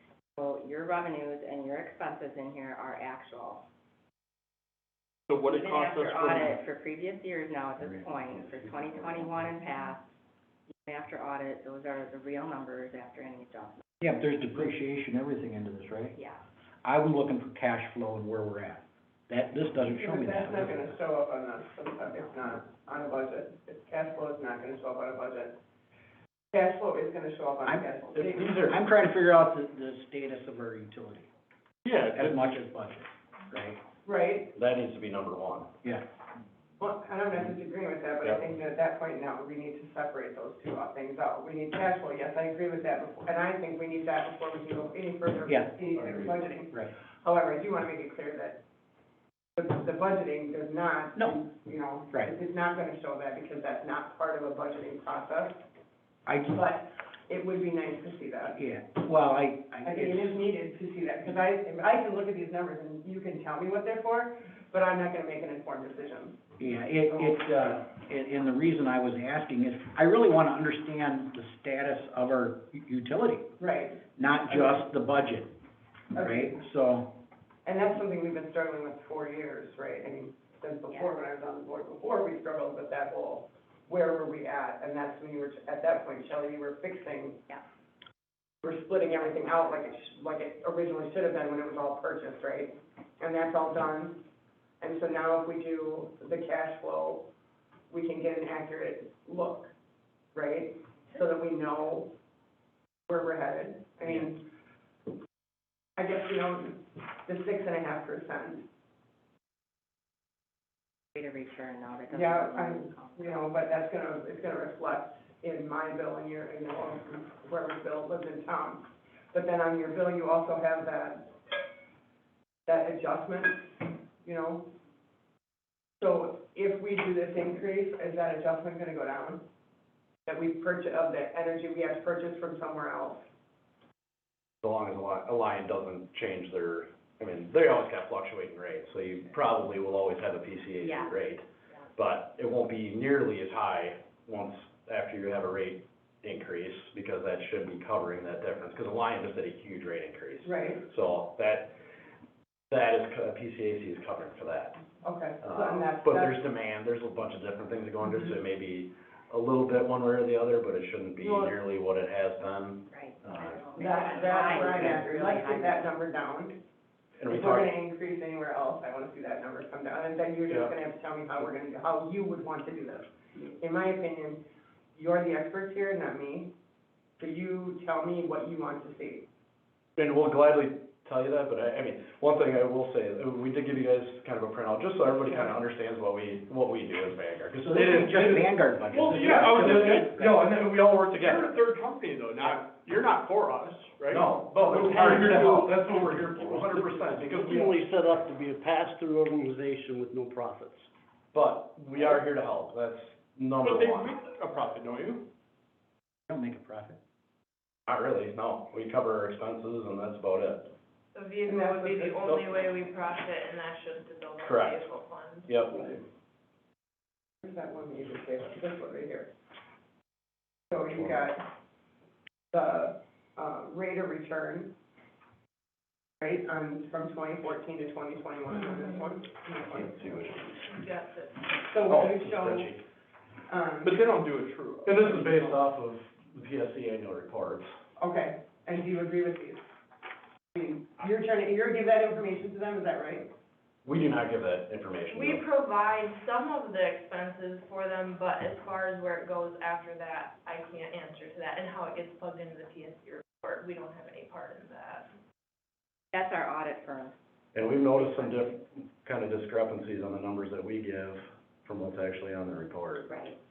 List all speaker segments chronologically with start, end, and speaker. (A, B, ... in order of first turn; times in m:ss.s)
0:00.4-0:03.6 A
0:05.3-0:06.6 B
0:05.4-0:10.1 A
0:10.8-0:13.8 A
0:14.0-0:16.2 C
0:16.2-0:16.4 A
0:16.8-0:20.8 C
0:19.9-0:25.6 D
0:26.5-0:28.6 D
0:27.6-0:27.9 C
0:28.1-0:28.8 E
0:28.6-0:31.3 C
0:31.9-0:32.3 F
0:32.1-0:33.8 C
0:34.0-0:34.5 D
0:34.5-0:35.7 E
0:36.8-0:48.6 D
0:45.5-0:46.9 C
0:49.6-0:55.6 D
0:51.2-0:51.4 C
0:56.3-0:56.6 C
0:56.5-0:58.6 D
0:58.6-1:00.4 C
0:59.8-1:06.4 D
1:06.6-1:13.5 C
1:13.6-1:14.0 D
1:14.2-1:15.5 C
1:16.2-1:17.2 C
1:16.2-1:16.5 D
1:17.6-1:27.5 D
1:28.6-1:34.2 D
1:29.3-1:29.6 A
1:34.8-1:37.3 D
1:37.9-1:39.7 D
1:40.3-1:42.1 D
1:43.1-1:44.4 D
1:46.0-1:48.7 D
1:51.2-1:53.6 A
1:52.1-2:01.3 D
2:02.7-2:04.7 D
2:06.0-2:09.4 D
2:10.3-2:13.3 D
2:14.6-2:21.4 E
2:20.8-2:21.1 A
2:22.0-2:31.8 E
2:30.4-2:30.9 D
2:32.7-2:34.9 E
2:35.0-2:36.4 D
2:35.4-2:43.8 E
2:41.2-2:41.5 D
2:42.9-2:45.8 A
2:43.8-2:46.6 D
2:47.2-2:47.7 E
2:47.3-2:56.5 D
2:50.5-2:50.8 E
2:57.2-2:59.3 D
3:00.0-3:08.4 E
3:07.6-3:10.5 C
3:08.2-3:17.7 B
3:09.7-3:10.0 E
3:14.1-3:17.8 E
3:17.6-3:20.9 F
3:21.3-3:24.1 E
3:23.6-3:25.3 B
3:26.3-3:27.0 C
3:27.9-3:30.7 E
3:31.1-3:35.6 G
3:31.5-3:32.7 D
3:34.4-3:34.9 E
3:35.5-3:36.0 E
3:37.4-3:39.3 D
3:40.7-3:41.4 D
3:42.5-3:44.7 D
3:46.2-3:50.3 D
3:49.7-3:50.8 E
3:50.7-3:51.5 G
3:51.6-3:52.8 D
3:51.9-3:52.8 E
3:53.5-3:54.0 D
3:53.8-3:55.6 B
3:54.8-3:57.7 E
3:58.0-3:59.6 D
4:00.5-4:03.3 D
4:03.8-4:05.4 E
4:05.1-4:15.1 G
4:16.1-4:17.2 A
4:17.6-4:23.1 E
4:17.9-4:18.4 A
4:23.1-4:23.4 A